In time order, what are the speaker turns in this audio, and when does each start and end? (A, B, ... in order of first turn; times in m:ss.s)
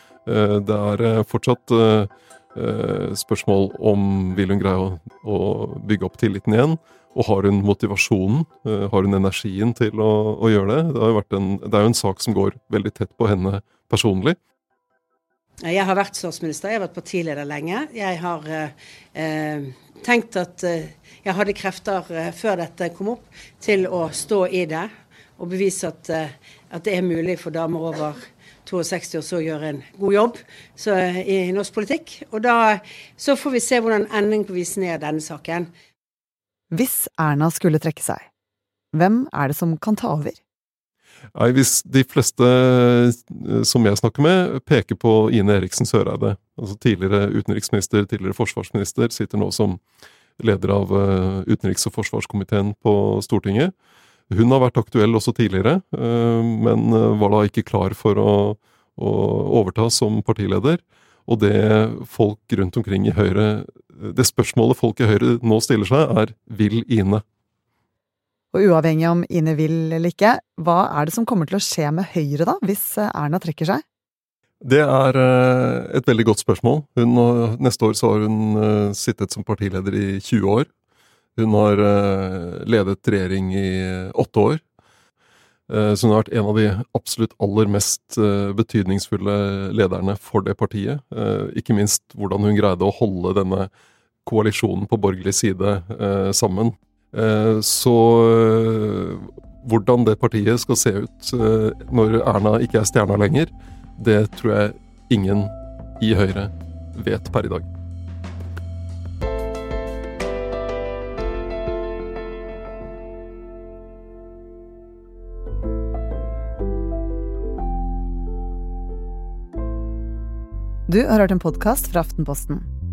0:00.2-0:14.4 A
0:15.6-0:35.7 B
0:36.7-0:38.3 C
0:38.9-0:40.4 C
0:41.3-0:49.8 A
0:50.4-0:53.7 A
0:54.3-1:07.2 A
1:08.5-1:13.8 C
1:14.6-1:20.7 A
1:21.4-1:24.6 A
1:25.7-1:33.7 A
1:34.2-1:47.7 A
2:00.9-2:02.7 C